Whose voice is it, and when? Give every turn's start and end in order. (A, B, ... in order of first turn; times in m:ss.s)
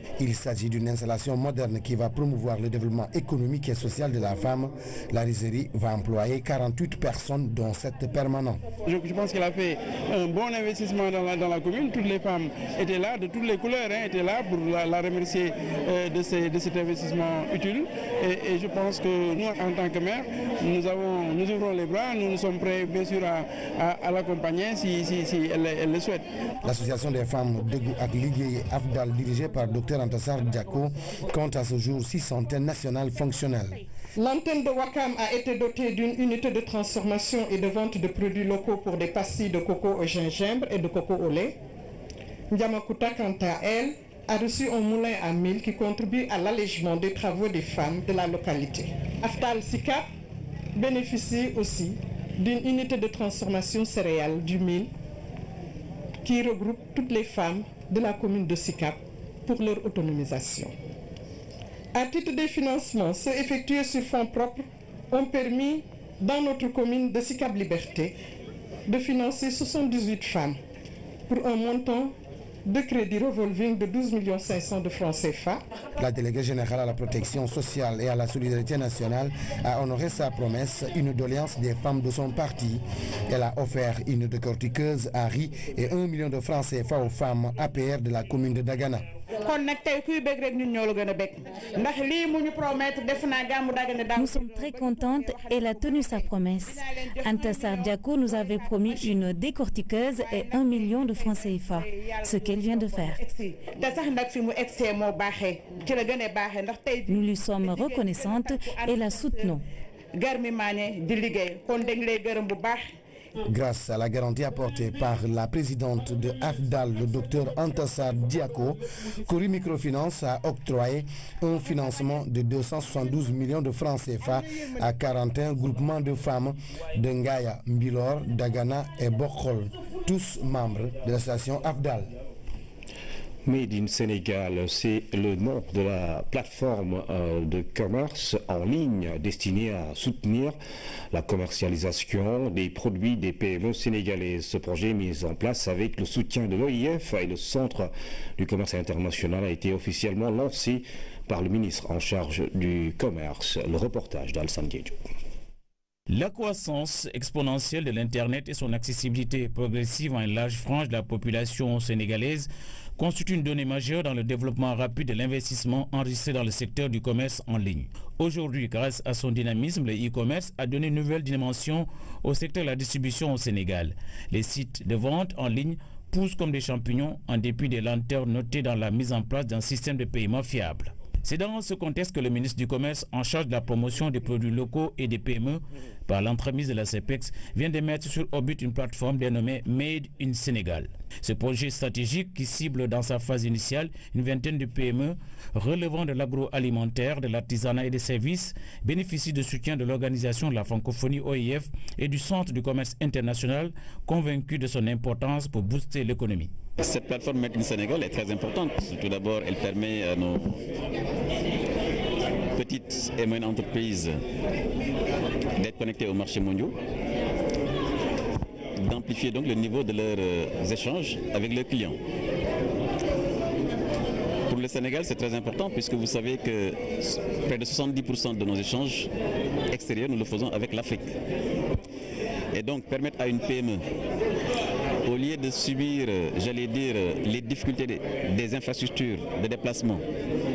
0:00.2-0:08.6 A
0:08.8-0:26.2 B
0:26.6-0:33.8 A
0:34.2-0:41.6 C
0:42.5-0:50.1 C
0:50.8-0:54.9 C
0:56.2-1:00.7 C
1:01.9-1:08.1 C
1:08.9-1:10.6 C
1:11.3-1:12.1 C
1:12.6-1:15.6 C
1:16.0-1:29.0 A
1:37.3-1:41.7 D
1:47.1-1:48.2 D
1:53.5-2:12.1 A
2:13.4-2:20.6 E
2:21.1-2:35.0 E
2:36.1-3:26.5 F
3:26.8-3:30.6 G
3:32.5-3:34.2 G
3:35.6-3:36.7 G
3:38.8-3:42.0 G
3:44.5-3:49.1 G
3:49.7-3:51.2 G
3:52.5-3:53.8 G
3:55.0-4:00.0 G